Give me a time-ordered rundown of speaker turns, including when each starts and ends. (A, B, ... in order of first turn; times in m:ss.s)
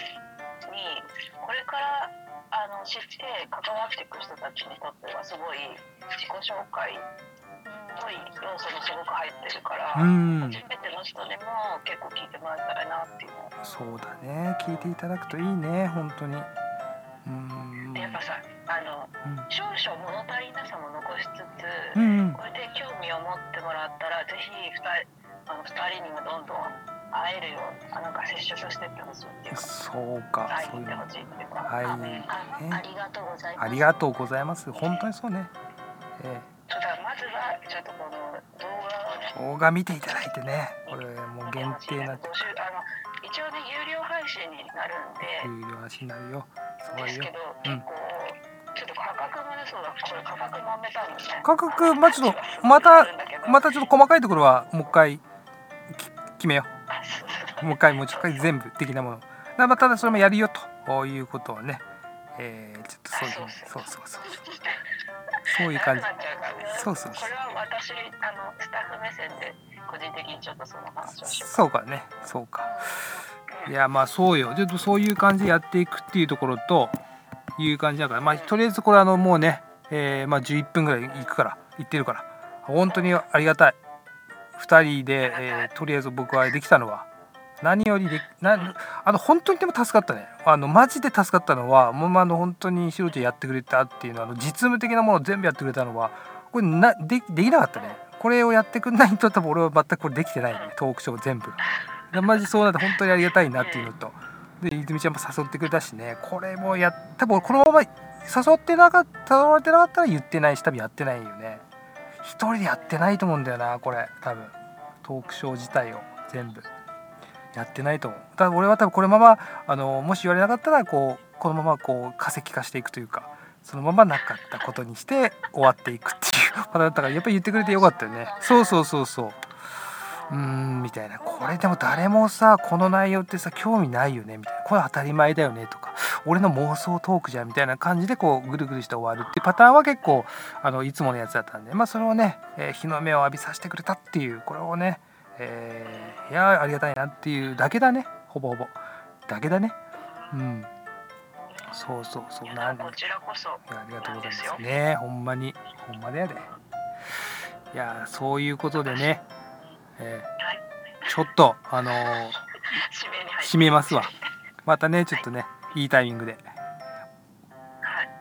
0:00.7-0:07.0 A
0:07.6-0:08.5 B
0:08.0-0:13.6 A
0:10.0-0:10.6 C
0:13.6-0:16.5 C
0:17.2-0:18.2 C
0:17.9-0:29.7 A
0:22.0-0:22.4 C
0:29.5-0:31.1 C
0:30.5-0:32.6 A
0:31.7-0:32.8 C
0:32.3-0:34.0 B
0:33.6-0:35.5 C
0:34.7-0:35.1 A
0:36.2-0:36.5 C
0:36.7-0:39.4 A
0:39.4-0:42.4 C
0:40.9-0:45.5 A
0:45.4-0:47.8 C
0:46.9-0:53.7 A
0:51.4-0:55.2 C
0:55.9-0:56.7 C
0:56.9-0:58.5 A
0:57.6-1:01.8 C
1:02.4-1:04.4 C
1:03.1-1:04.8 A
1:05.5-1:06.1 C
1:05.7-1:11.6 A
1:06.7-1:07.3 C
1:11.1-1:12.7 C
1:12.6-1:13.0 B
1:13.7-1:17.0 C
1:17.6-1:23.8 C
1:18.3-1:18.6 A
1:21.1-1:21.4 A
1:22.9-1:23.2 A
1:24.6-1:27.1 C
1:25.2-1:25.7 A
1:27.6-1:41.6 C
1:37.8-1:38.0 A
1:40.5-1:40.7 A
1:41.6-1:43.0 A
1:42.1-1:51.6 C
1:43.5-1:43.9 A
1:52.2-1:56.7 C
1:52.7-1:53.1 A
1:57.5-2:09.5 C
2:07.5-2:09.0 B
2:10.1-2:10.4 A
2:10.3-2:29.8 C
2:11.3-2:12.0 A
2:25.8-2:26.4 A
2:30.0-2:30.4 A
2:30.3-2:30.7 C
2:31.4-2:31.9 A
2:31.7-2:33.0 C
2:32.5-2:34.6 A
2:33.7-2:36.5 C
2:37.7-2:39.2 C
2:38.8-2:39.8 A
2:40.0-2:40.3 C
2:40.4-2:41.1 A
2:41.1-2:42.4 C
2:41.8-2:44.2 A
2:43.4-2:44.1 C
2:44.6-2:46.4 C
2:47.8-2:48.1 A